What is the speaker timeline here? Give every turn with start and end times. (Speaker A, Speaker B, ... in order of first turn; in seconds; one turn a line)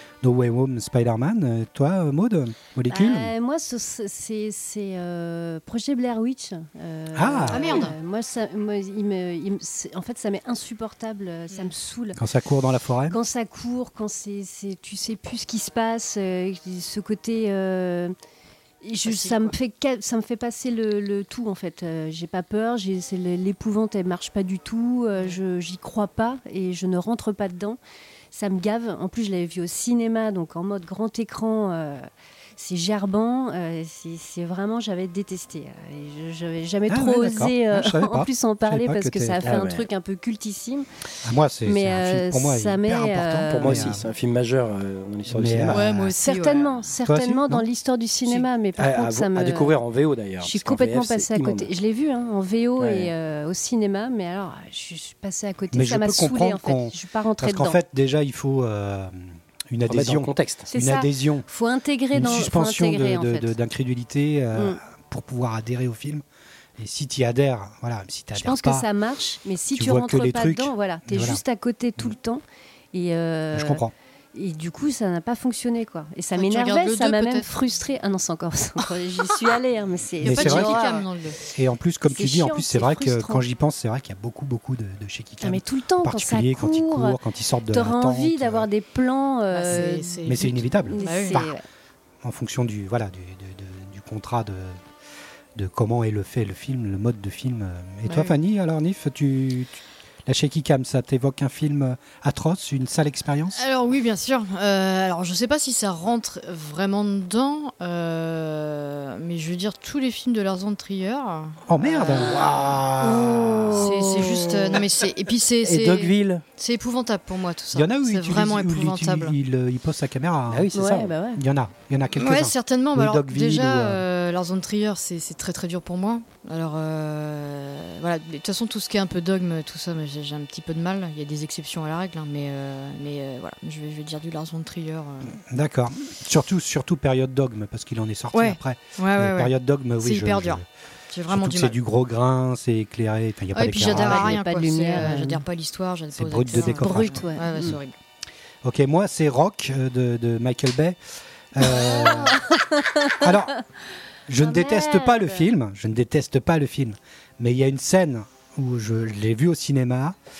Speaker A: 0.2-3.3
Speaker B: 2.9-12.2
Speaker A: 7.1-7.9
Speaker C: 7.5-7.9
Speaker A: 12.2-13.2
Speaker B: 13.1-18.1
Speaker B: 18.8-27.8
Speaker C: 19.0-19.5
Speaker B: 28.3-40.9
Speaker A: 36.9-39.4
Speaker D: 39.4-39.9
Speaker A: 41.2-44.1
Speaker B: 41.6-43.9
Speaker D: 43.5-45.9
Speaker A: 45.3-46.1
Speaker C: 45.7-46.9
Speaker B: 46.0-49.7
Speaker A: 47.0-47.6
Speaker D: 48.8-51.7
Speaker B: 50.4-57.8
Speaker D: 52.8-53.1
Speaker A: 55.7-61.5
Speaker D: 59.9-60.7
Speaker B: 60.7-63.5
Speaker A: 62.1-66.2
Speaker A: 66.8-68.9
Speaker B: 68.3-73.8
Speaker A: 69.7-71.4
Speaker A: 73.5-73.9
Speaker B: 74.3-81.0
Speaker C: 76.3-77.5
Speaker A: 80.2-80.8
Speaker C: 80.2-81.4
Speaker A: 81.5-88.7
Speaker B: 82.0-83.5
Speaker B: 85.4-87.2
Speaker B: 87.7-90.3
Speaker C: 89.5-91.4
Speaker A: 90.2-91.5
Speaker B: 90.8-91.6
Speaker A: 92.2-94.8
Speaker A: 95.5-103.6
Speaker C: 98.0-98.3
Speaker C: 103.5-112.5
Speaker A: 111.7-114.0
Speaker B: 113.0-114.8
Speaker C: 113.7-119.3
Speaker D: 115.6-116.4
Speaker A: 117.7-120.7
Speaker D: 120.5-121.1
Speaker B: 120.7-121.4
Speaker A: 121.3-124.0
Speaker C: 122.1-135.4
Speaker A: 135.3-140.6
Speaker C: 138.3-141.8
Speaker A: 141.3-144.4
Speaker C: 143.5-147.9
Speaker B: 143.8-145.4
Speaker A: 146.1-147.8
Speaker B: 146.5-147.7
Speaker A: 148.6-151.0
Speaker A: 151.5-152.5
Speaker B: 151.7-153.3
Speaker A: 153.1-153.6
Speaker A: 154.3-160.2
Speaker B: 154.4-155.4